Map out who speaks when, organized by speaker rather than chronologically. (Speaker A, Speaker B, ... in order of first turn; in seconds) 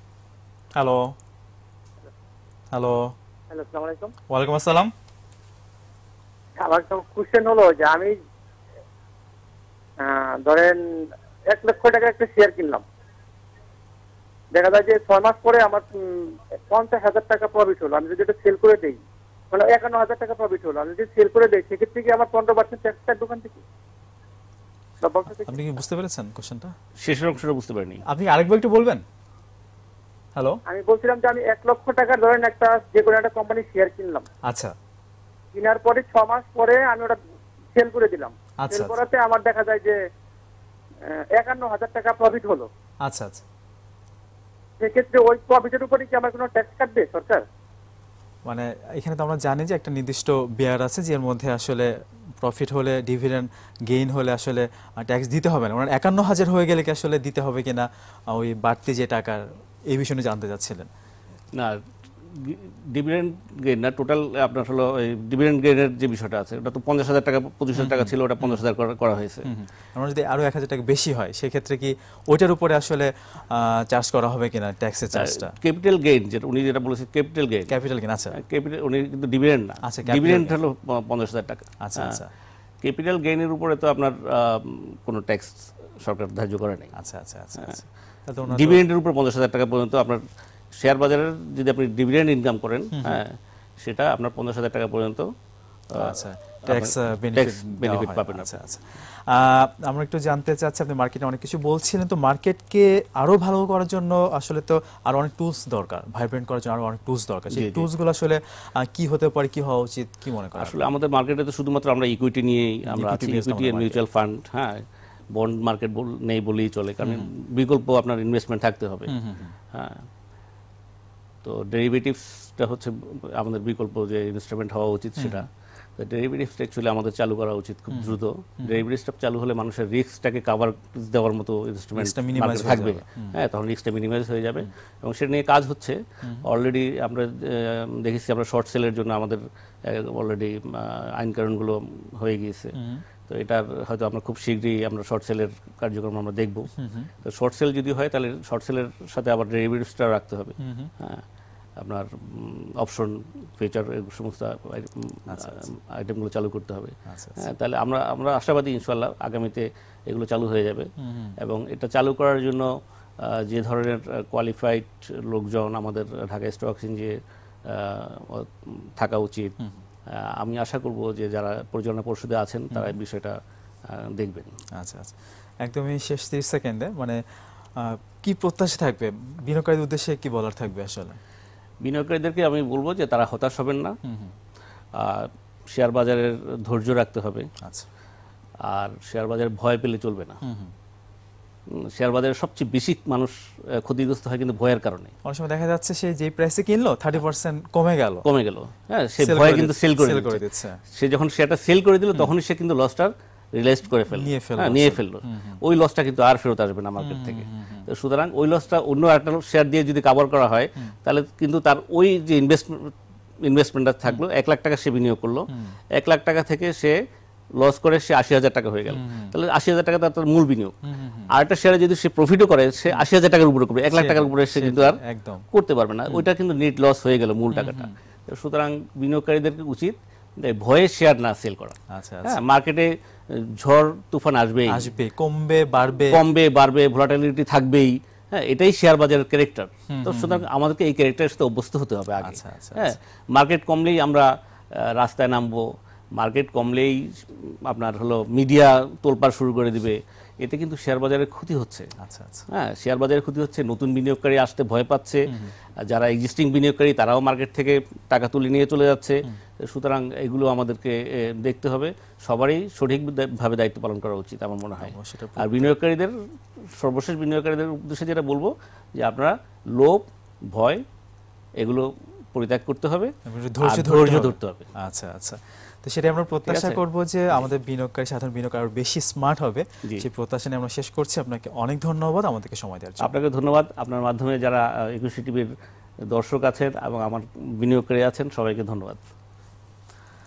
Speaker A: 0.8-1.1, 2.7-3.1, 4.3-4.9, 25.4-26.7, 28.1-29.0, 34.4-34.7, 38.6-39.0, 43.0-43.4, 48.5-51.9, 52.4-60.9, 67.7-68.6, 69.4-75.5, 77.7-78.4, 79.8-80.6, 81.8-82.3, 87.0-88.8, 92.9-93.2, 96.0-110.9, 112.9-114.0, 117.0-117.3, 119.1-119.5, 125.2-125.4, 127.9-128.8, 131.9-133.4, 146.8-147.1, 150.6-150.9, 155.3-155.7, 157.1-157.4, 161.0-161.3, 174.8-177.2, 177.8-181.2, 184.0-184.3, 190.4-190.7, 195.2-198.2, 199.2-200.8, 204.1-205.6, 207.0-207.8, 218.9-219.3, 220.8-221.3, 223.9-225.4, 227.5-227.9, 231.9-232.4, 234.7-236.2, 239.9-240.5, 242.2-243.0, 252.0-252.4, 255.3-255.5, 264.8-265.7, 273.2-283.1
Speaker B: 3.5-4.1, 6.6-8.1, 10.0-10.8, 11.5-12.8, 14.5-19.0, 19.5-23.6, 25.0-25.6, 30.7-34.2, 35.5-37.2, 37.7-40.0, 41.1-42.7, 44.8-47.4
Speaker C: 27.0-28.0, 61.5-69.5, 75.1-77.7, 78.3-82.2, 82.8-86.9, 88.5-90.2, 90.8-95.3, 95.9-98.6, 107.5-107.9, 110.5-119.2, 119.7-120.0, 121.4-125.5, 126.0-142.7, 143.3-146.7, 147.2-151.2, 151.8-169.5, 170.1-174.5, 181.8-184.0, 184.9-187.5, 188.7-190.3, 191.7-195.1, 198.2-216.9, 217.6-220.8, 221.3-225.0, 225.5-234.9, 236.1-251.9, 252.5-255.3, 255.8-270.8, 271.6-274.6, 276.5-276.8, 283.0-285.5, 286.1-289.0